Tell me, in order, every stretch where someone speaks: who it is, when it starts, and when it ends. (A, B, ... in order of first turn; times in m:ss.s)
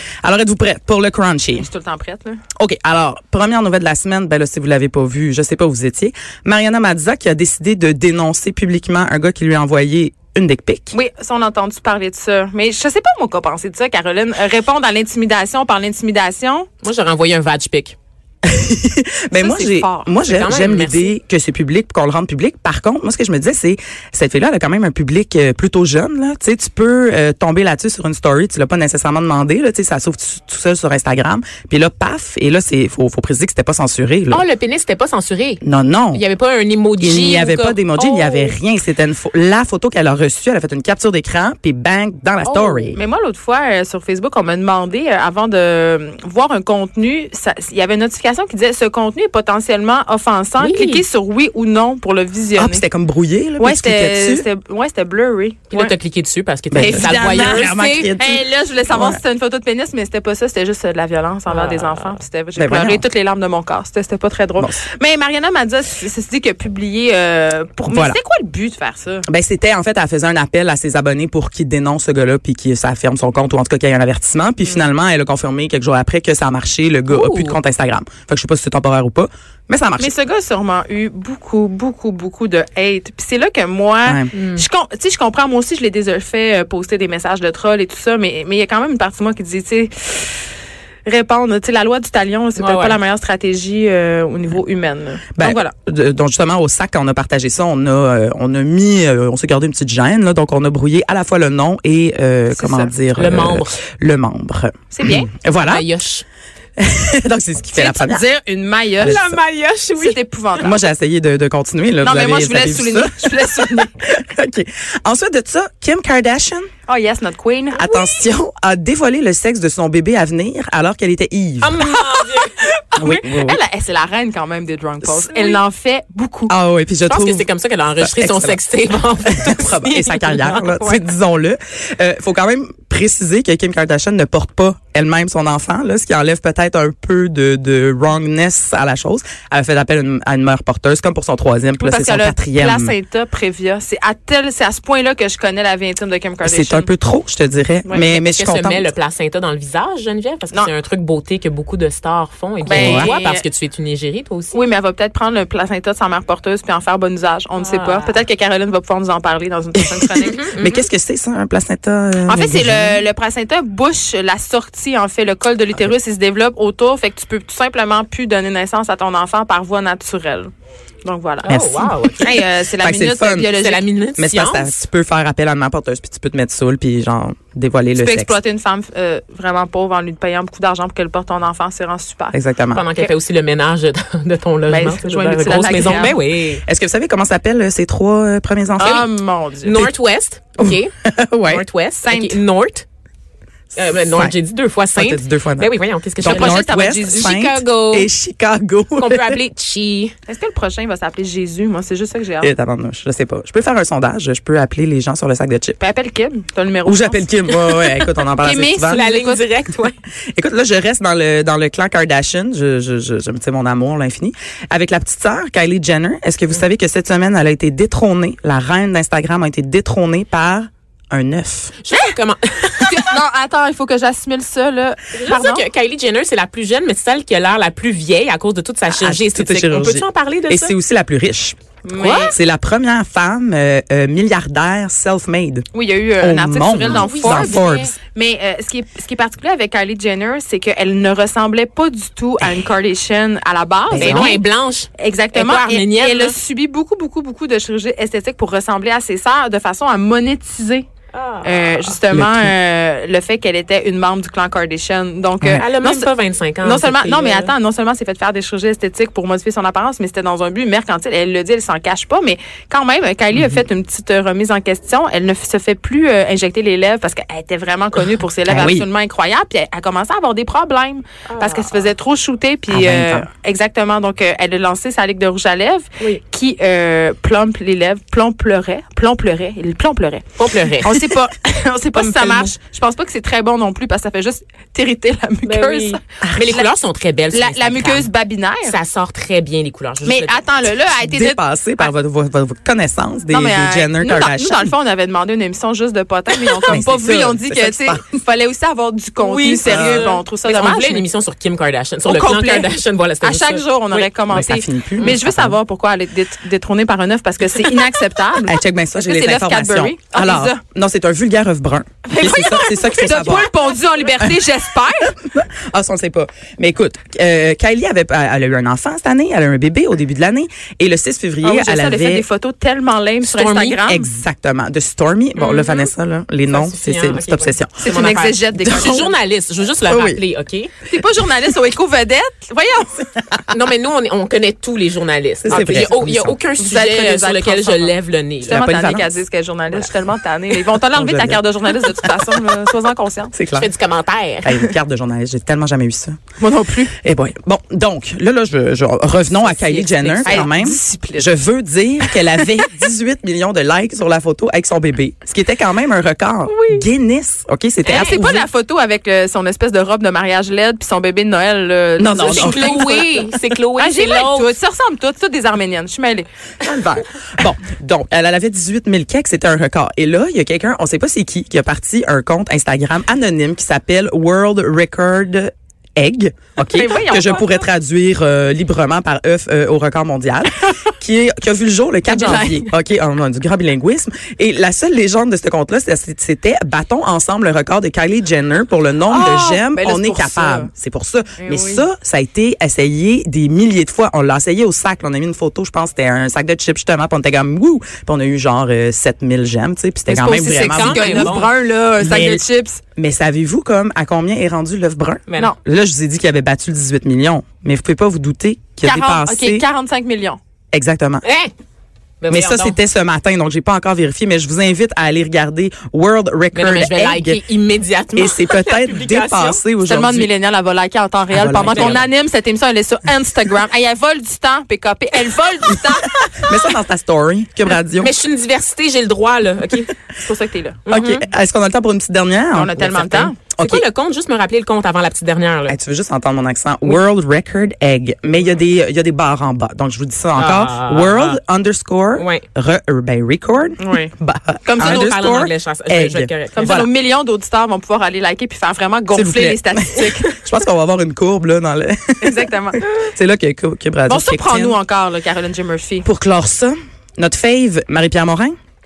0:00.2-0:01.7 A
0:01.5-0:02.4 B
0:02.6-0:10.9 A
0:10.9-0:16.7 B
0:16.8-0:18.0 C
0:18.4-0:34.4 A
0:19.3-0:20.1 B
0:20.2-0:21.1 C
0:34.3-0:35.6 C
0:35.6-0:36.2 A
0:36.1-0:38.6 C
0:37.0-0:43.0 A
0:42.4-0:42.9 C
0:42.9-0:52.8 B
0:50.6-0:51.0 C
0:52.6-0:54.4 A
0:53.6-0:56.0 B
0:55.7-0:57.8 C
0:56.7-0:59.2 A
0:56.8-1:09.2 B
1:01.4-1:02.2 C
1:02.6-1:03.0 A
1:07.9-1:08.2 A
1:09.3-1:20.1 A
1:17.1-1:17.5 B
1:17.2-1:17.5 C
1:20.0-1:30.4 B
1:24.3-1:24.6 C
1:31.0-1:35.7 B
1:32.6-1:33.0 C
1:35.4-1:45.8 A
1:42.5-1:43.0 B
1:43.2-1:43.8 C
1:44.9-1:45.3 B
1:45.6-1:46.2 C
1:46.8-1:48.2 A
1:47.7-1:49.2 B
1:49.0-1:50.2 C
1:49.0-1:49.4 A
1:50.0-1:50.8 B
1:50.6-1:56.7 A
1:52.0-1:53.9 B
1:56.9-1:58.2 B
1:57.7-2:01.8 A
2:01.6-2:02.5 C
2:01.8-2:06.5 B
2:03.0-2:03.6 A
2:05.0-2:05.4 A
2:06.5-2:07.5 A
2:07.1-2:11.0 C
2:08.0-2:08.6 A
2:09.2-2:22.9 A
2:21.8-2:26.9 B
2:26.4-2:28.9 A
2:27.8-2:28.1 B
2:28.1-2:34.6 C
2:32.6-2:33.4 B
2:32.7-2:33.1 A
2:34.5-2:40.5 B
2:37.6-2:38.2 C
2:40.0-2:43.0 A
2:40.2-2:40.8 C
2:42.3-2:50.5 B
2:51.0-2:53.8 B
2:51.4-2:52.3 C
2:51.5-2:53.6 A
2:53.5-2:54.8 C
2:54.2-2:58.4 A
2:57.9-3:02.4 B
3:02.3-3:02.8 A
3:02.7-3:06.6 C
3:04.7-3:06.2 B
3:05.7-3:06.1 A
3:06.6-3:09.0 A
3:08.8-3:09.8 B
3:08.8-3:09.1 C
3:09.6-3:10.9 C
3:10.6-3:11.6 A
3:11.5-3:12.8 C
3:12.0-3:12.4 B
3:13.8-3:18.1 C
3:15.0-3:19.4 A
3:16.2-3:17.4 B
3:19.0-3:20.1 C
3:20.3-3:22.5 B
3:22.4-3:25.8 A
3:25.8-3:27.4 B
3:26.8-3:29.0 A
3:27.8-3:28.1 C
3:28.4-3:29.7 B
3:28.9-3:29.9 C
3:30.3-3:41.7 A
3:41.8-3:43.1 C
3:42.8-3:45.6 B
3:45.1-3:50.7 C
3:48.9-3:51.6 A
3:51.8-3:52.3 B
3:52.0-3:52.4 C
3:52.3-3:55.6 A
3:55.7-4:04.4 B
3:56.2-3:58.0 A
3:56.9-3:57.9 C
4:03.9-4:04.4 A
4:03.9-4:06.3 C
4:05.0-4:10.9 B
4:11.1-4:12.0 C
4:11.4-4:16.1 B
4:12.1-4:12.5 A
4:15.6-4:17.5 C
4:16.6-4:46.7 B
4:28.5-4:28.9 A
4:31.3-4:31.8 C
4:32.7-4:33.2 A
4:40.4-4:41.1 C
4:41.9-4:42.5 C
4:45.4-4:48.1 C
4:46.2-4:46.5 A
4:47.3-4:48.8 B
4:48.6-4:50.4 C
4:50.0-4:51.9 B
4:50.9-4:54.7 A
4:53.3-5:01.0 B
4:56.5-4:58.0 A
4:59.2-5:04.1 C
4:59.6-5:00.1 A
5:02.0-5:10.6 B
5:04.3-5:05.6 A
5:08.4-5:13.5 A
5:12.0-5:15.2 B
5:15.2-5:22.2 A
5:21.4-5:24.1 B
5:23.2-5:23.8 C
5:23.8-5:27.8 A
5:25.4-5:25.9 C
5:26.5-5:30.7 C
5:27.8-5:29.2 B
5:29.8-5:30.2 A
5:30.9-5:33.1 B
5:33.5-5:38.6 C
5:35.4-5:36.4 A
5:35.5-5:36.0 B
5:36.6-5:37.9 B
5:38.4-5:39.1 A
5:38.4-5:43.3 B
5:40.9-5:41.4 A
5:43.3-5:43.7 A
5:43.5-5:44.7 C
5:44.4-5:46.2 A
5:46.4-5:46.9 B
5:47.0-5:58.2 A
5:49.3-5:50.5 C
5:50.2-5:51.3 B
5:57.8-6:06.3 B
5:57.8-5:58.4 C
6:02.0-6:02.9 A
6:02.1-6:04.5 C
6:06.6-6:41.4 A
6:16.6-6:17.7 B
6:22.0-6:22.7 B
6:29.1-6:30.7 B
6:31.4-6:31.8 B
6:40.1-6:42.8 B
6:40.4-6:41.5 C
6:42.0-6:42.4 A
6:43.0-6:49.6 A
6:45.3-6:45.5 C
6:48.8-6:50.4 B
6:50.7-6:51.2 A
6:51.2-6:51.5 C
6:52.2-6:52.8 C
6:52.3-6:57.4 A
6:56.5-6:59.6 C
6:58.1-7:00.3 A
6:59.8-7:06.7 B
7:01.3-7:02.1 A
7:01.5-7:02.0 C
7:06.4-7:08.1 A
7:08.0-7:09.9 C
7:10.2-7:10.9 B
7:10.9-7:11.2 C
7:10.9-7:13.8 A
7:12.5-7:13.4 B
7:13.5-7:15.8 C
7:15.7-7:26.9 A
7:20.4-7:21.4 C
7:22.1-7:22.4 C
7:23.8-7:24.1 B
7:24.6-7:25.1 B
7:24.8-7:26.8 C
7:26.5-7:30.4 B
7:29.1-7:34.8 A
7:32.2-7:32.8 B
7:34.1-7:36.1 B
7:36.0-7:38.6 A